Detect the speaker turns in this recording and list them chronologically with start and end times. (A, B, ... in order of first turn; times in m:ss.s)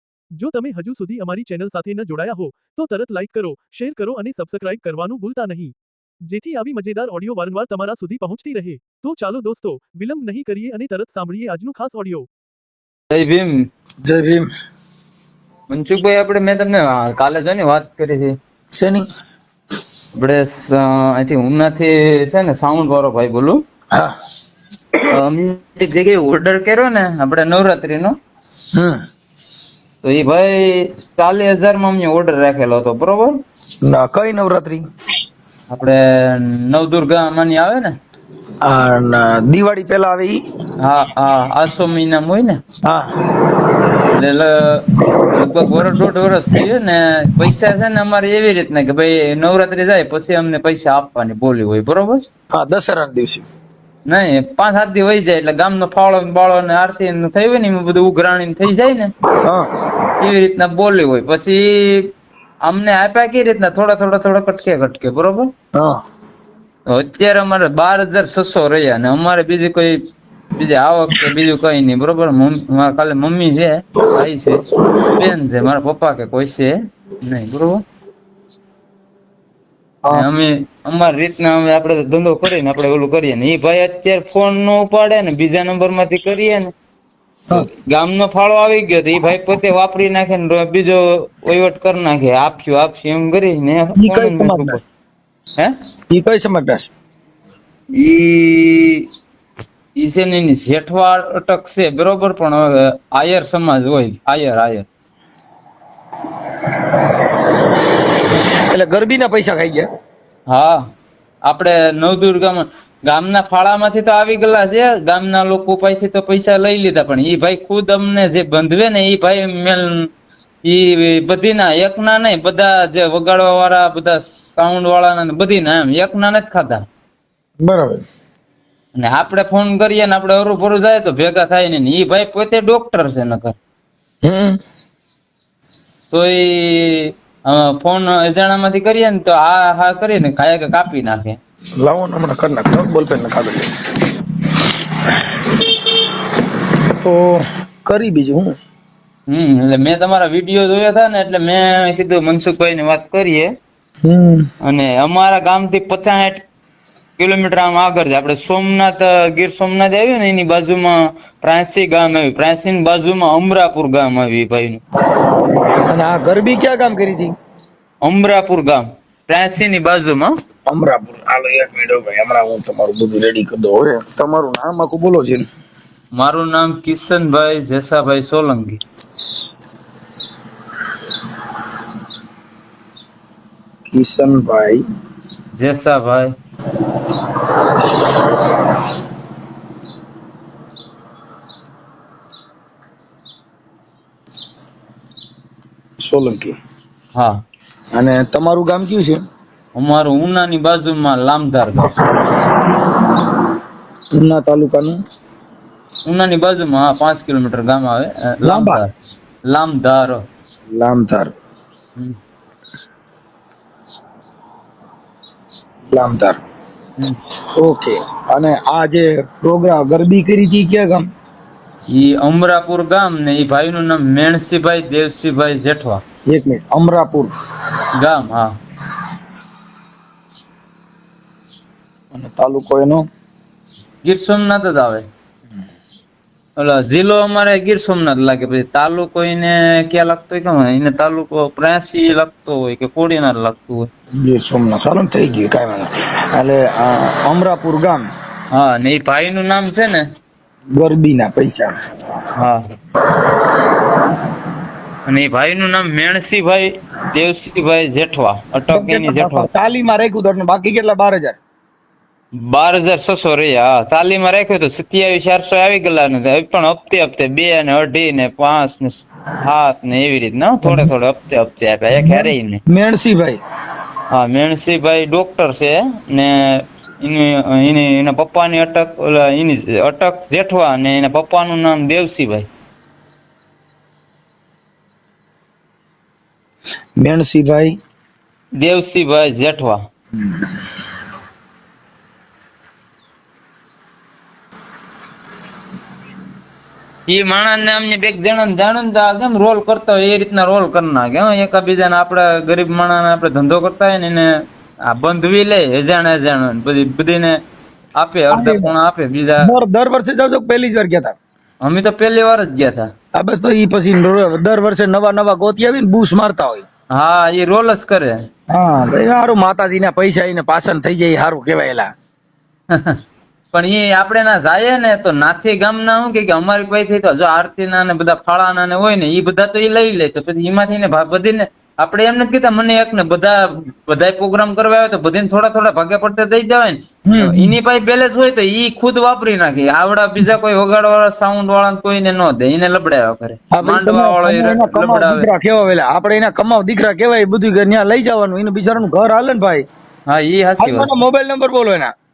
0:00.4-0:05.7 A
0:06.3-0:12.3 A
0:13.1-0:13.7 B
0:14.0-0:14.5 C
0:15.7-0:18.4 B
0:18.7-0:19.0 C
0:20.2-0:23.6 B
0:25.1-0:28.2 B
0:28.7-0:29.0 C
0:30.0-0:33.4 B
0:33.8-0:34.8 C
0:35.7-0:38.0 B
0:38.6-0:40.4 C
0:40.8-0:42.6 B
0:42.8-0:43.7 C
0:44.1-0:52.2 B
0:52.5-0:53.5 C
0:54.1-0:59.1 B
0:59.4-0:59.7 C
1:00.2-1:02.1 B
1:02.6-1:05.5 B
1:05.7-1:06.0 C
1:06.9-1:10.0 B
1:10.6-1:17.8 B
1:20.1-1:26.7 B
1:27.5-1:34.8 B
1:34.0-1:34.8 C
1:36.1-1:36.9 C
1:37.9-1:39.1 B
1:40.0-1:44.9 B
1:48.7-1:49.9 C
1:50.5-1:50.8 B
1:51.5-2:00.1 B
2:00.6-2:06.8 B
2:07.6-2:08.0 C
2:09.0-2:13.6 B
2:14.2-2:14.6 C
2:16.1-2:21.4 B
2:21.8-2:23.7 C
2:27.0-2:28.6 C
2:29.3-2:33.5 B
2:34.0-2:34.5 C
2:34.6-2:36.4 B
2:37.2-2:44.8 B
2:45.8-2:47.4 C
2:48.0-2:50.4 B
2:50.7-2:55.5 C
2:56.2-2:58.8 B
3:03.9-3:04.8 C
3:05.6-3:06.4 B
3:16.0-3:16.6 C
3:17.2-3:17.4 B
3:17.9-3:19.2 C
3:19.8-3:21.9 B
3:24.1-3:25.0 C
3:26.1-3:28.9 B
3:28.4-3:28.8 C
3:29.5-3:30.2 B
3:30.7-3:31.3 C
3:35.9-3:36.4 C
3:37.5-3:41.1 C
3:41.9-3:46.0 B
3:46.3-3:47.3 C
3:48.0-3:48.5 B
3:52.1-3:53.1 C
3:54.0-3:55.0 B
3:56.6-4:03.9 B
4:04.2-4:08.1 C
4:08.5-4:10.0 B
4:10.7-4:11.8 C
4:12.4-4:12.6 B
4:15.1-4:19.5 B
4:18.7-4:21.4 C
4:22.4-4:32.6 B
4:32.0-4:33.4 C
4:34.1-4:42.5 B
4:47.0-4:47.8 C
4:48.6-4:49.8 B
4:57.1-5:04.3 B
5:04.9-5:07.4 B
5:08.0-5:09.5 B
5:08.3-5:08.7 C
5:09.4-5:11.2 C
5:11.6-5:12.9 B
5:13.1-5:16.7 C
5:16.9-5:18.2 B
5:18.5-5:21.9 C
5:22.7-5:23.0 B
5:23.5-5:45.3 B
5:37.1-5:37.6 C
5:43.5-5:49.7 C
5:50.1-5:50.9 B
5:50.6-5:51.9 C